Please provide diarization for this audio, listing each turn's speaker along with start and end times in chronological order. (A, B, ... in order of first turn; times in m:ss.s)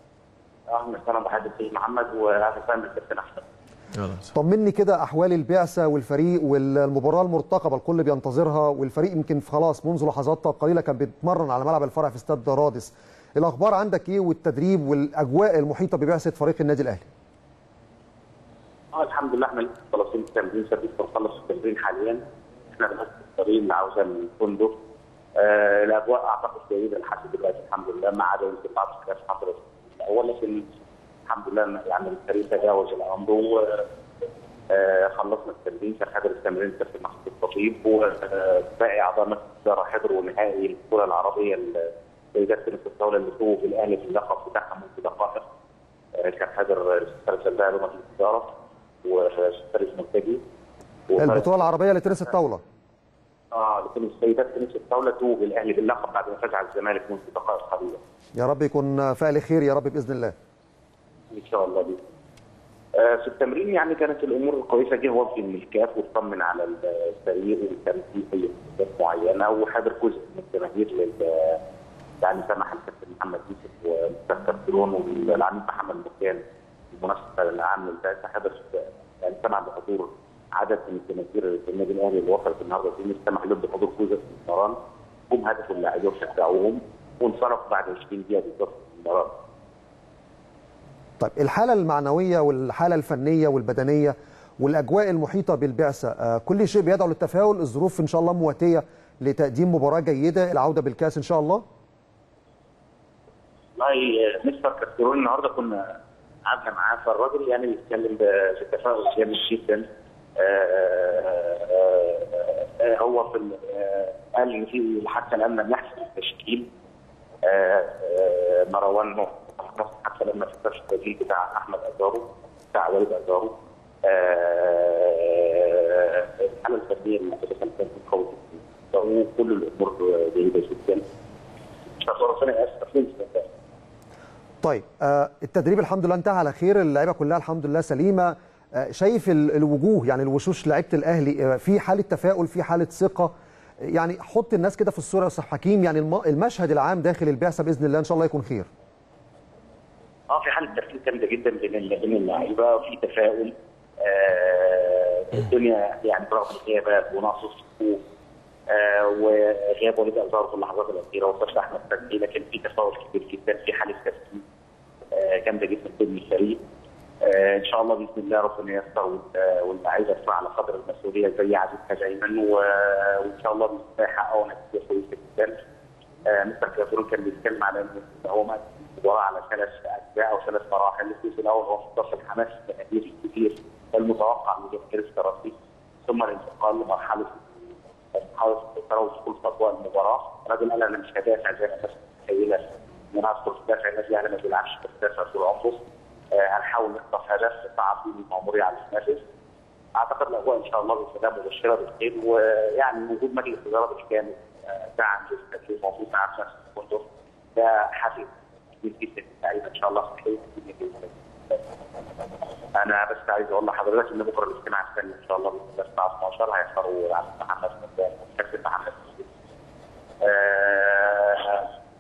0:00.7-0:03.4 A
0:04.2-0:17.1 B
0:18.9-0:24.8 A
0:25.4-0:30.7 A
0:31.3-0:33.9 A
0:34.7-0:45.4 A
0:46.2-0:48.5 A
0:49.0-0:50.4 A
0:51.1-0:51.6 A
0:51.2-0:52.6 B
0:53.5-0:58.0 A
0:58.4-1:00.3 B
1:01.3-1:02.0 A
1:03.0-1:11.6 A
1:12.2-1:24.8 A
1:25.3-1:29.3 A
1:31.2-1:41.6 B
1:43.8-1:49.9 A
1:50.4-1:56.7 A
1:57.4-2:11.0 A
2:11.9-2:13.5 A
2:14.6-2:23.3 B
2:23.9-2:28.7 B
2:30.3-2:38.0 A
2:38.7-2:44.4 A
2:45.1-2:46.6 A
2:47.2-2:55.6 A
2:56.3-3:07.5 A
3:08.1-3:19.2 A
3:20.0-3:28.3 A
3:28.8-3:31.6 A
3:32.8-3:39.3 A
3:40.2-3:41.7 A